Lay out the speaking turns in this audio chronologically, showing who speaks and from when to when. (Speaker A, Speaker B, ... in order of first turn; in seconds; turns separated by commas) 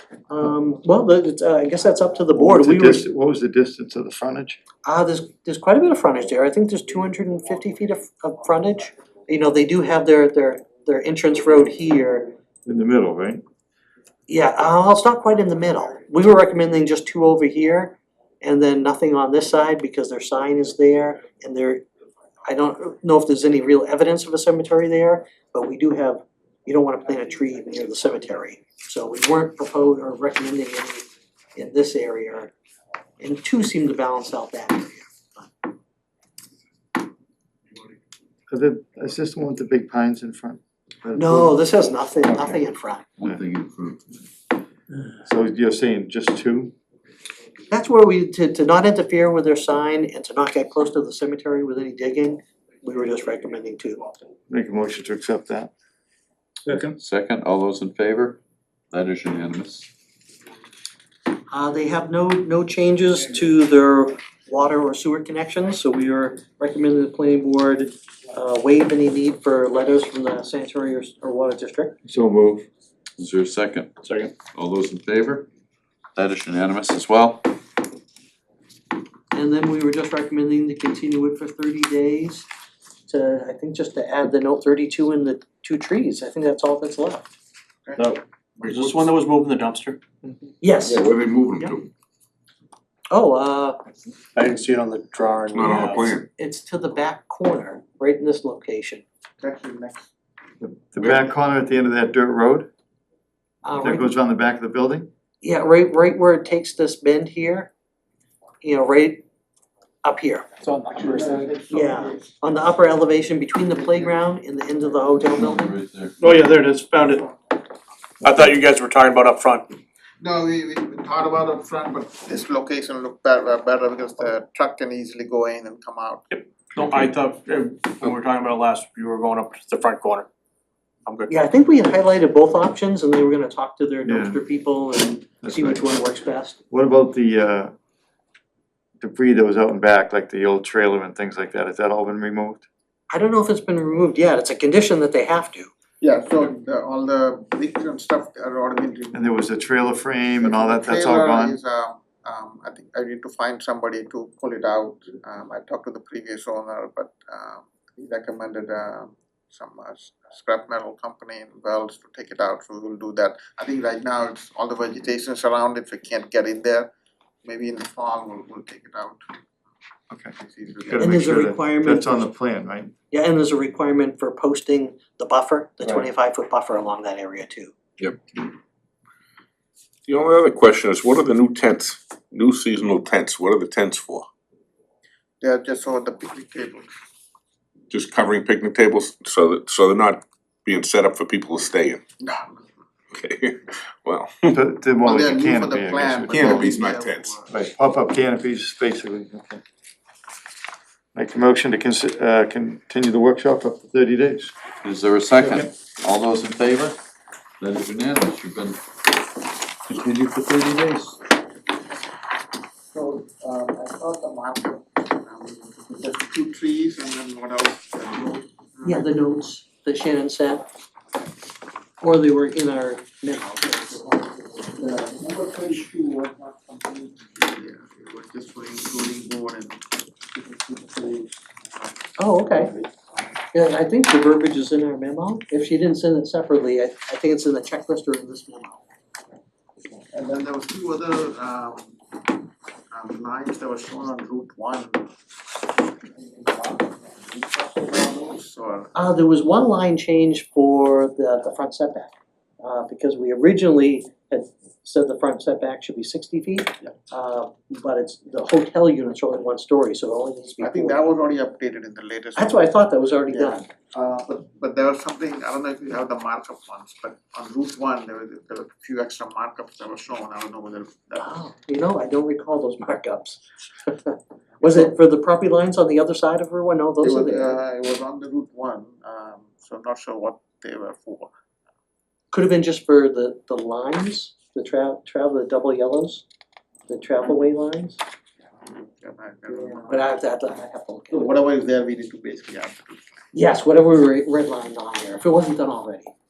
Speaker A: 0.3-3.0, Speaker B: 2.4-4.6, Speaker A: 4.8-12.4, Speaker B: 12.7-13.4, Speaker A: 14.3-21.8, Speaker A: 22.5-32.5, Speaker A: 33.2-35.5, Speaker B: 38.5-41.6, Speaker A: 41.1-43.1, Speaker C: 43.2-44.2, Speaker B: 45.2-46.7, Speaker A: 47.7-54.2, Speaker B: 54.5-55.7, Speaker B: 56.7-57.0, Speaker C: 56.7-58.4, Speaker C: 58.9-59.9, Speaker A: 61.5-72.0, Speaker B: 72.0-72.7, Speaker C: 73.2-75.5, Speaker D: 74.0-74.3, Speaker C: 76.2-77.5, Speaker A: 79.3-82.5, Speaker A: 83.1-87.3, Speaker D: 88.0-90.0, Speaker E: 88.6-89.1, Speaker A: 90.6-91.0, Speaker E: 90.8-91.9, Speaker A: 93.1-93.8, Speaker D: 94.3-96.2, Speaker E: 95.5-96.3, Speaker A: 96.4-99.0, Speaker F: 99.4-100.1, Speaker B: 100.6-102.7, Speaker A: 103.6-104.2, Speaker B: 103.8-105.1, Speaker A: 105.4-107.7, Speaker A: 108.6-109.2, Speaker A: 110.0-110.5, Speaker D: 110.6-111.6, Speaker F: 110.9-112.2, Speaker A: 111.7-115.8, Speaker C: 115.3-116.2, Speaker D: 116.2-117.3, Speaker D: 118.2-119.7, Speaker F: 120.2-126.3, Speaker D: 126.3-130.3, Speaker A: 131.3-136.6, Speaker B: 134.1-134.4, Speaker B: 135.4-135.8, Speaker B: 136.7-137.7, Speaker B: 139.0-142.7, Speaker A: 143.1-145.7, Speaker F: 146.0-149.2, Speaker B: 149.1-151.6, Speaker F: 150.4-166.9, Speaker F: 167.4-169.2, Speaker B: 170.1-172.9, Speaker F: 170.4-171.2, Speaker A: 171.0-172.3, Speaker A: 173.1-177.7, Speaker E: 180.1-184.3, Speaker F: 185.4-186.9, Speaker E: 187.9-192.0, Speaker F: 192.2-192.6, Speaker E: 193.1-194.6, Speaker B: 194.5-196.7, Speaker F: 195.0-197.5, Speaker E: 196.3-197.4, Speaker B: 197.5-199.6, Speaker B: 201.1-204.5, Speaker C: 204.8-207.0, Speaker B: 205.4-205.7, Speaker C: 207.6-208.8, Speaker C: 209.9-211.2, Speaker F: 212.9-219.1, Speaker A: 218.9-220.7, Speaker A: 222.0-224.3, Speaker F: 224.8-233.3, Speaker A: 232.2-232.7, Speaker A: 233.5-238.8, Speaker F: 240.1-242.0, Speaker F: 242.9-245.1, Speaker F: 245.8-248.9, Speaker A: 248.9-261.0, Speaker F: 260.6-262.7, Speaker A: 262.4-263.7, Speaker F: 263.3-271.2, Speaker A: 271.2-277.6, Speaker F: 274.6-274.9, Speaker F: 277.0-281.3, Speaker A: 282.3-286.2, Speaker A: 286.9-288.0, Speaker F: 288.6-290.0, Speaker A: 289.5-291.3, Speaker F: 291.1-293.2, Speaker A: 293.3-296.1